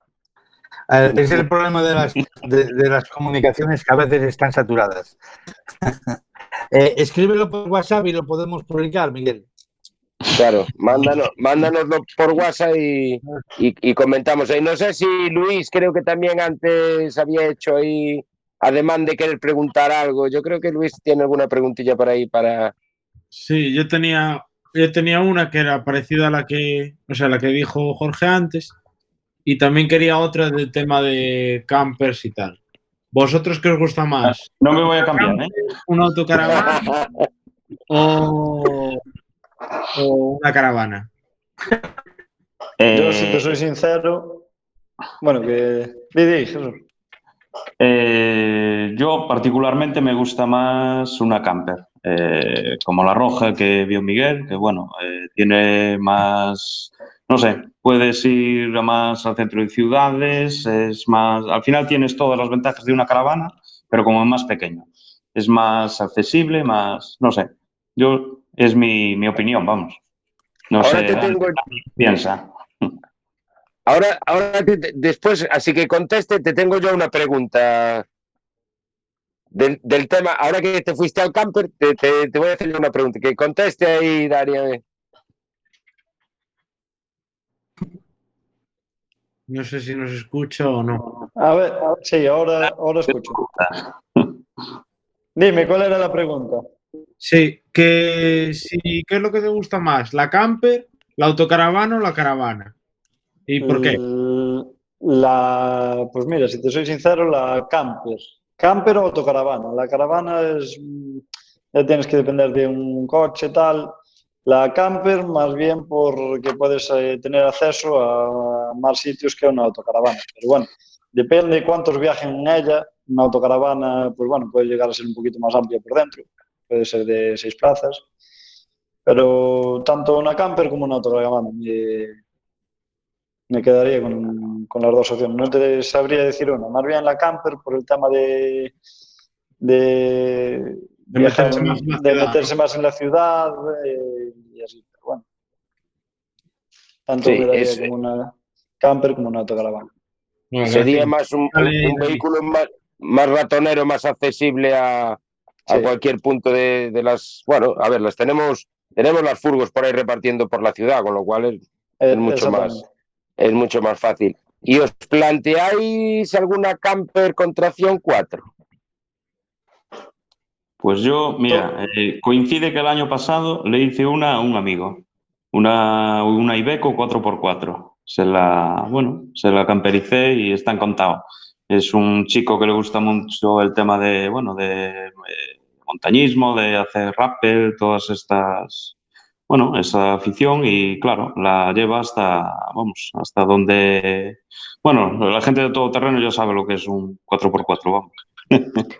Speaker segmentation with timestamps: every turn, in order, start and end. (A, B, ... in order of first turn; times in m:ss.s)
0:00.9-0:05.2 A
0:06.7-0:09.4 A
0:10.3-0:22.7 B
0:23.3-0:28.7 C
0:29.5-0:32.6 C
0:33.1-0:34.5 C
0:34.2-0:35.5 D
0:35.1-0:36.9 C
0:36.4-0:37.1 B
0:37.9-0:39.0 C
0:40.0-0:41.1 C
0:42.8-0:43.6 D
0:42.9-0:44.4 E
0:45.2-0:46.8 E
0:47.8-1:10.0 D
1:10.7-1:12.5 D
1:10.8-1:11.6 B
1:13.9-1:18.0 B
1:19.5-1:24.8 B
1:29.5-1:31.1 C
1:31.4-1:33.4 E
1:33.4-1:34.4 D
1:35.4-1:36.7 E
1:37.2-1:42.7 C
1:43.5-1:44.0 C
1:43.6-1:53.9 E
1:54.5-2:08.0 E
2:09.1-2:12.2 E
2:13.5-2:18.7 E
2:19.6-2:25.2 E
2:21.1-2:22.5 C
2:27.1-2:29.9 E
2:27.2-2:27.9 B
2:30.5-2:32.2 C
2:30.6-2:42.8 B
2:35.7-2:35.9 E
2:42.0-2:42.8 E
2:43.4-2:48.4 B
2:50.8-3:08.9 D
3:09.5-3:18.8 D